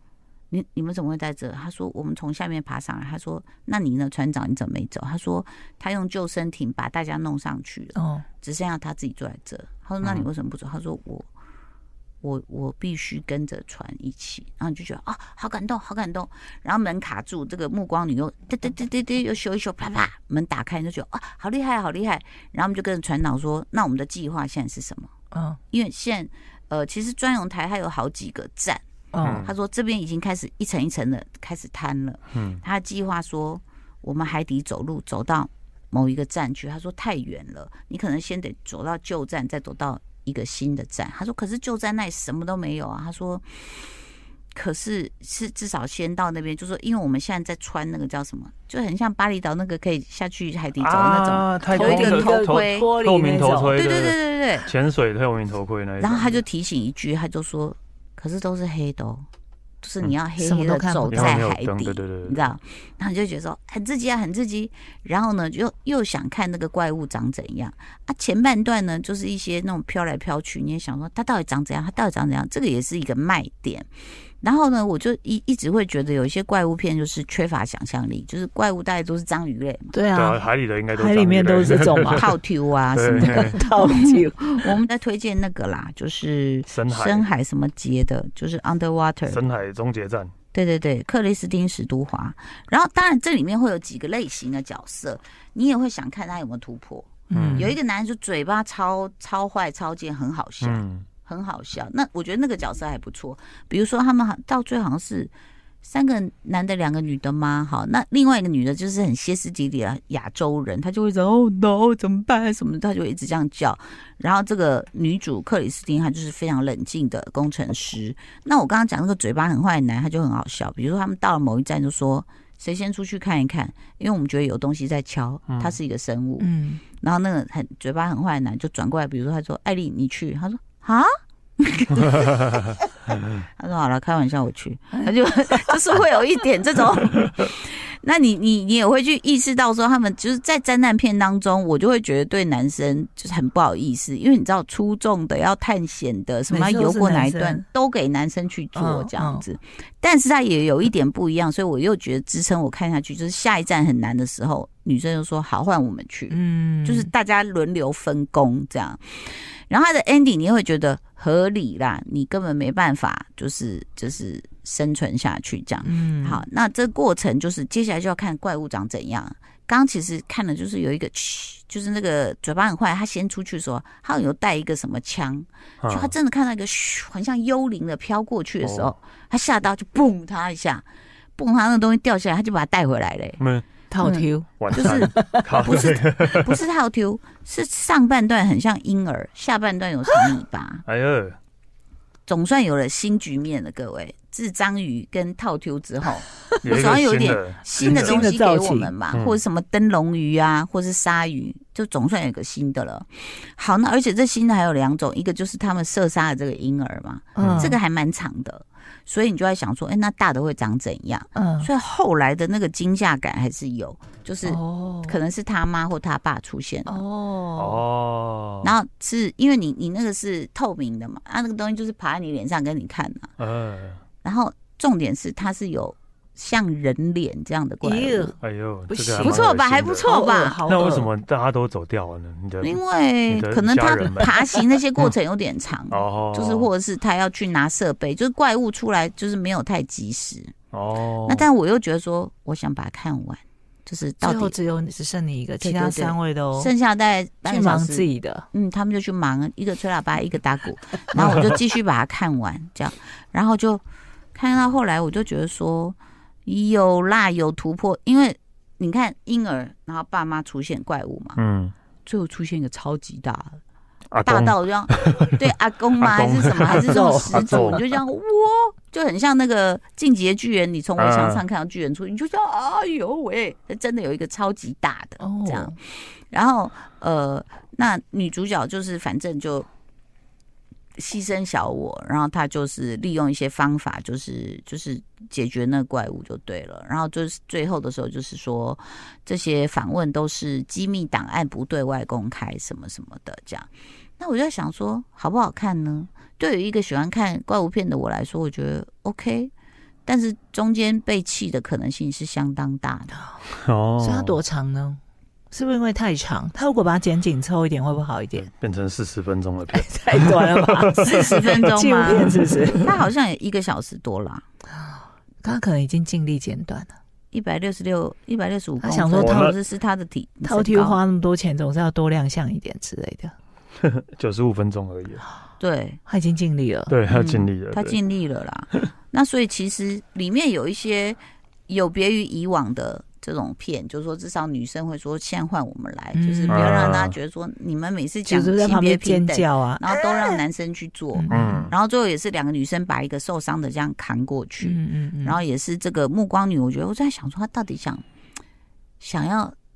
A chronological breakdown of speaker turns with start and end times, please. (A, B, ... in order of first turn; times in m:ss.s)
0:00.5-0:11.3 A
0:08.0-0:08.2 B
0:10.0-0:10.3 C
0:12.2-0:25.1 A
0:25.3-0:25.6 B
0:25.7-0:28.8 A
0:29.1-0:29.5 B
0:29.2-0:29.5 C
0:29.4-0:43.9 A
0:32.3-0:32.6 C
0:44.5-0:52.9 A
0:50.8-0:56.4 C
0:51.7-0:53.8 B
0:53.8-0:54.7 A
0:56.0-0:59.3 A
0:59.8-1:13.9 A
1:00.4-1:01.4 B
1:01.1-1:02.5 C
1:14.4-1:19.9 A
1:19.9-1:20.4 B
1:20.1-1:22.4 C
1:20.9-1:22.3 B
1:22.0-1:29.4 A
1:22.9-1:23.6 C
1:23.2-1:24.8 B
1:26.7-1:27.3 C
1:29.3-1:30.3 C
1:30.5-2:12.8 A
1:37.3-1:37.8 B
1:37.3-1:37.7 C
1:40.6-1:41.0 C
2:05.5-2:05.7 C
2:06.4-2:06.8 B
2:13.6-3:00.8 A
2:26.5-2:27.6 B
2:28.7-2:29.4 B
2:36.3-2:37.1 B
2:45.8-2:46.4 B
2:55.8-2:56.1 C
2:58.6-2:58.9 C
3:01.4-3:03.4 A
3:03.4-3:03.6 C
3:03.9-3:05.9 B
3:04.0-3:10.8 A
3:04.6-3:06.5 C
3:10.8-3:11.4 C
3:12.3-3:37.0 A
3:16.6-3:18.2 C
3:17.8-3:18.9 B
3:19.1-3:19.4 C
3:27.4-3:27.8 B
3:27.4-3:27.8 C
3:31.3-3:31.7 B
3:34.4-3:35.2 B
3:36.9-3:37.8 B
3:37.6-3:38.8 C
3:38.6-3:43.3 A
3:43.4-3:44.0 C
3:44.2-3:48.3 A
3:47.8-3:48.4 B
3:48.4-3:50.1 C
3:48.9-3:51.1 B
3:49.2-3:50.6 A
3:50.6-3:55.1 C
3:52.6-4:00.5 A
3:55.9-3:56.7 C
4:00.7-4:01.5 C
4:01.3-4:04.6 A
4:04.2-4:06.7 B
4:05.6-4:13.8 A
4:07.4-4:08.5 B
4:11.2-4:11.4 C
4:14.3-4:21.4 A
4:21.4-4:21.7 C
4:22.0-4:23.6 A
4:24.1-4:25.4 C
4:24.2-4:39.7 A
4:26.0-4:27.8 C
4:26.6-4:27.8 B
4:31.0-4:31.4 C
4:35.2-4:35.8 B
4:41.0-4:59.5 A
5:00.0-5:03.2 A
5:03.5-5:04.4 C
5:04.0-5:05.0 B
5:05.5-5:08.5 B
5:08.4-5:12.7 C
5:09.7-5:13.0 B
5:11.0-5:14.4 A
5:14.8-5:16.9 B
5:17.3-5:21.0 A
5:18.8-5:19.6 B
5:19.2-5:19.6 C
5:20.4-5:23.3 B
5:23.8-5:25.2 C
5:25.6-5:26.0 A
5:26.1-5:27.0 B
5:26.9-5:28.0 C
5:27.1-5:48.0 A
5:36.1-5:36.9 B
5:36.5-5:37.1 C
5:38.3-5:40.4 B
5:41.1-5:41.7 B
5:41.3-5:41.7 C
5:44.6-5:45.4 B
5:49.0-5:49.5 A